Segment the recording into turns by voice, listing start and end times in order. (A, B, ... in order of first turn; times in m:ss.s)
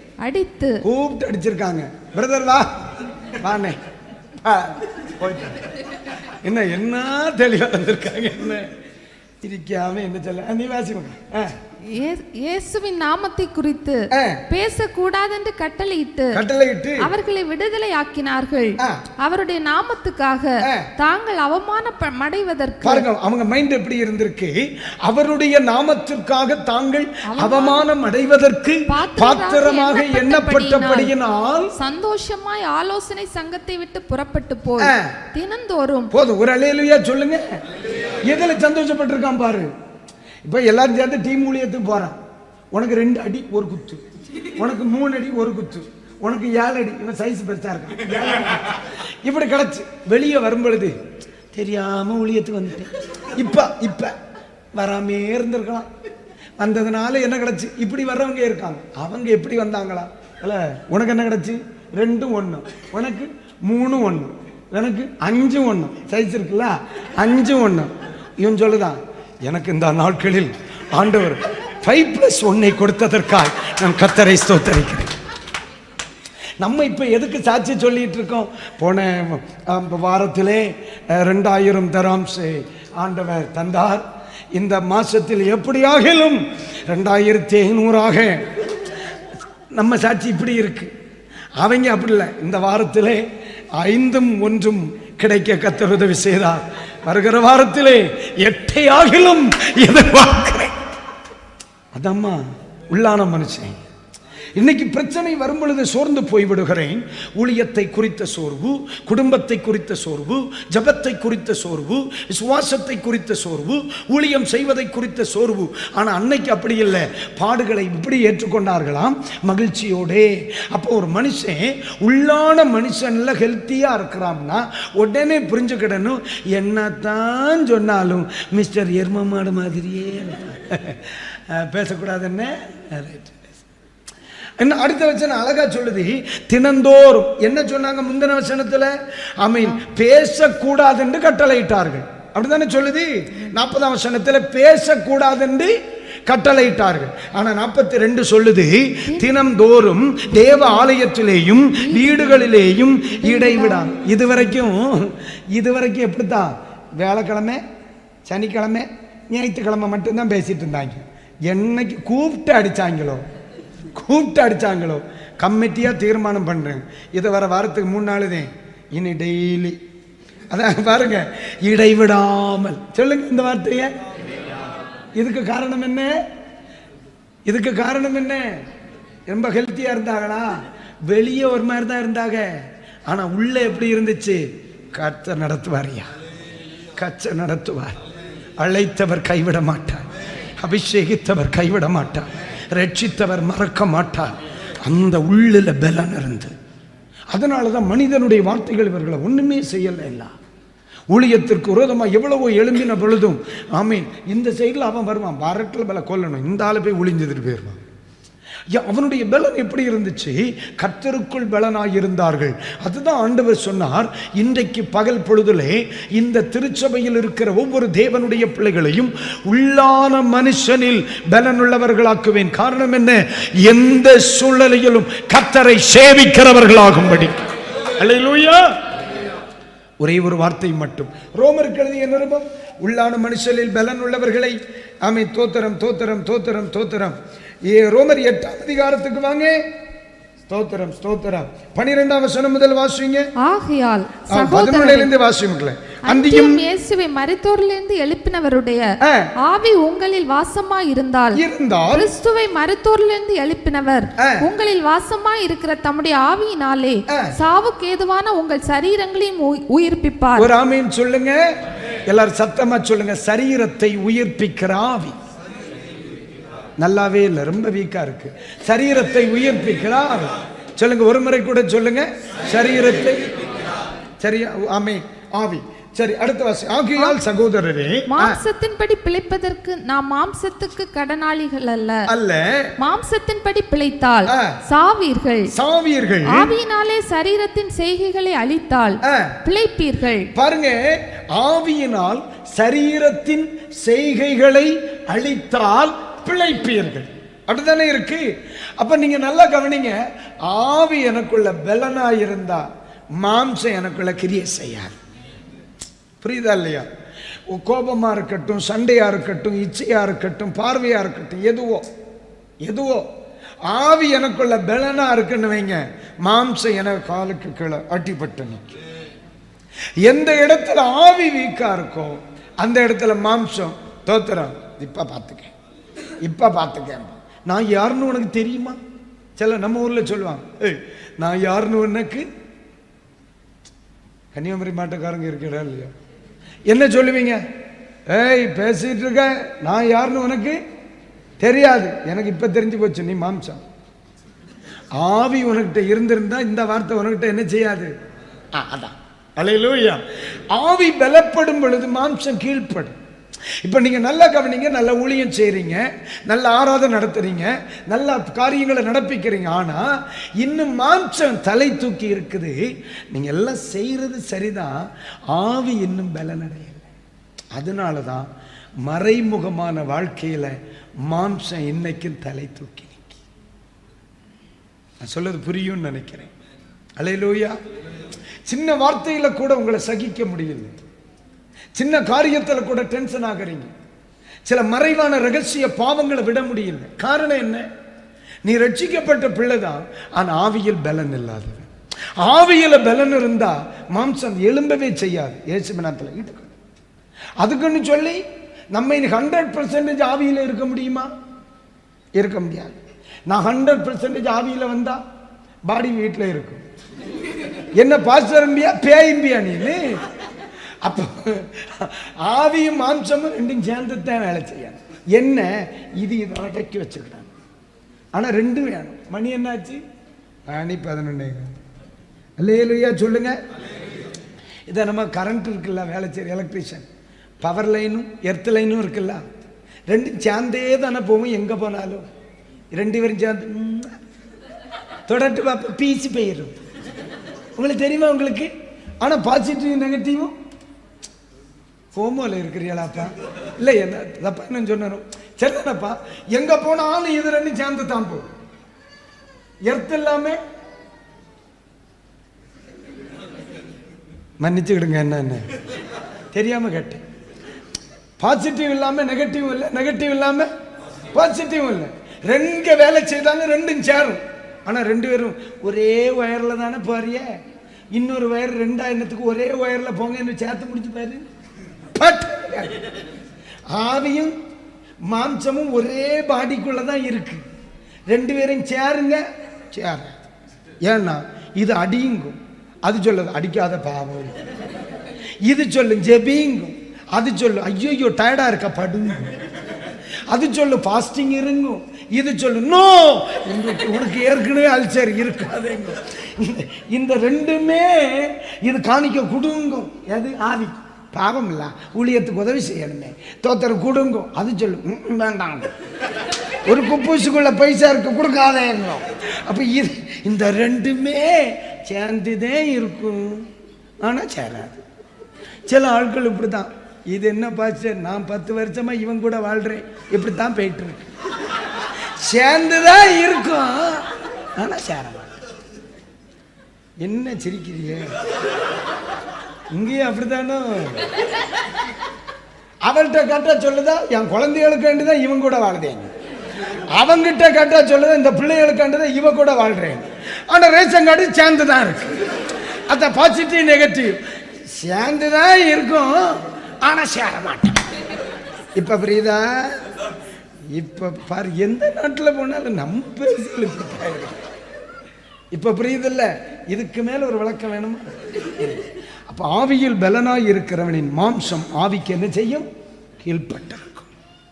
0:00.2-0:00.8 A
0:00.8-0:02.7 B
0:03.4-0:03.8 B
0:04.4-0:05.7 B
0:06.4-0:08.6 B
0:09.4-0:11.6 B
0:11.8-0:16.4 A
0:14.1-0:14.4 B
0:16.3-0:17.1 B
0:17.0-0:23.0 A
0:20.6-0:20.9 B
0:22.8-0:31.7 B
0:27.3-0:27.9 A
0:28.9-0:31.1 A
0:31.7-0:36.1 A
0:34.8-0:35.1 B
0:36.1-0:37.4 B
0:38.2-0:39.7 B
0:40.4-0:42.2 B
0:42.7-0:44.0 B
0:44.6-0:50.9 B
0:51.5-0:54.1 B
0:54.7-0:55.9 B
0:56.6-1:15.1 B
1:16.6-1:28.8 B
1:29.7-1:30.9 B
1:31.6-1:33.2 B
1:33.7-1:40.7 B
1:41.9-1:43.8 B
1:44.6-2:13.6 B
2:14.6-2:25.7 B
2:26.3-2:37.6 B
2:30.4-2:30.9 A
2:31.7-2:34.2 A
2:38.2-2:43.2 B
2:43.9-2:49.8 B
2:50.5-2:53.9 B
2:55.2-2:56.2 B
2:57.4-2:58.6 B
2:59.3-3:06.1 B
3:07.0-3:08.0 B
3:08.6-3:10.1 B
3:10.6-3:16.5 B
3:17.3-3:20.3 B
3:21.1-3:27.8 B
3:28.7-3:47.4 B
3:48.0-3:48.6 B
3:50.0-3:59.6 B
4:00.5-4:03.2 B
4:03.4-4:05.1 A
4:04.3-4:06.6 B
4:06.1-4:20.5 A
4:09.0-4:09.3 B
4:11.3-4:12.1 B
4:14.2-4:14.5 B
4:20.4-4:21.4 B
4:22.1-4:25.2 B
4:26.8-4:33.2 B
4:34.2-4:38.4 B
4:37.0-4:37.2 A
4:38.1-4:42.1 A
4:42.1-4:42.7 B
4:42.8-4:45.5 A
4:44.3-4:44.6 B
4:45.5-4:46.5 B
4:46.2-4:50.3 A
4:49.0-4:49.4 B
4:50.3-4:58.2 B
4:58.8-5:02.6 B
5:03.2-5:05.0 B
5:06.2-5:06.9 B
5:07.5-5:11.8 B
5:12.6-5:13.0 B
5:13.7-5:18.7 B
5:20.0-5:25.5 B
5:26.2-5:28.8 B
5:29.4-5:32.2 B
5:34.3-5:35.9 B
5:36.7-5:37.4 B
5:38.1-5:40.6 B
5:41.4-5:43.6 B
5:45.0-5:47.9 B
5:48.5-5:53.0 B
5:53.6-6:02.6 B
6:03.1-6:04.8 B
6:05.3-6:06.9 B
6:07.5-6:08.3 B
6:08.8-6:13.2 B
6:15.0-6:16.3 B
6:17.0-6:17.6 B
6:18.4-6:20.7 B
6:21.7-6:23.7 B
6:24.4-6:27.6 B
6:28.4-6:31.7 B
6:32.2-6:36.5 B
6:37.4-6:38.2 B
6:38.7-6:41.1 B
6:42.2-6:45.0 B
6:45.7-6:46.6 B
6:47.8-6:50.0 B
6:50.8-6:57.3 B
6:58.1-6:59.8 B
7:00.5-7:01.5 B
7:02.4-7:03.4 B
7:04.7-7:06.8 B
7:07.4-7:09.2 B
7:09.9-7:12.0 B
7:12.7-7:14.0 B
7:15.1-7:16.5 B
7:17.6-7:20.3 B
7:21.9-7:28.3 B
7:29.7-7:30.4 B
7:34.4-7:35.4 B
7:36.3-7:37.0 B
7:38.2-7:40.5 B
7:41.1-7:47.4 B
7:47.9-7:51.2 B
7:51.9-7:52.9 B
7:53.7-7:54.3 B
7:55.1-7:57.4 B
7:58.1-8:00.2 B
8:00.8-8:04.3 B
8:05.4-8:09.3 B
8:10.3-8:25.7 B
8:26.6-8:33.5 B
8:34.0-8:34.8 B
8:35.7-8:41.1 B
8:42.2-8:45.3 B
8:47.0-8:48.2 B
8:49.7-8:51.1 B
8:52.8-8:56.1 B
8:56.9-9:02.2 B
9:02.9-9:04.2 B
9:04.7-9:07.8 B
9:08.7-9:09.8 B
9:10.7-9:14.4 B
9:15.5-9:22.7 B
9:23.2-9:24.1 B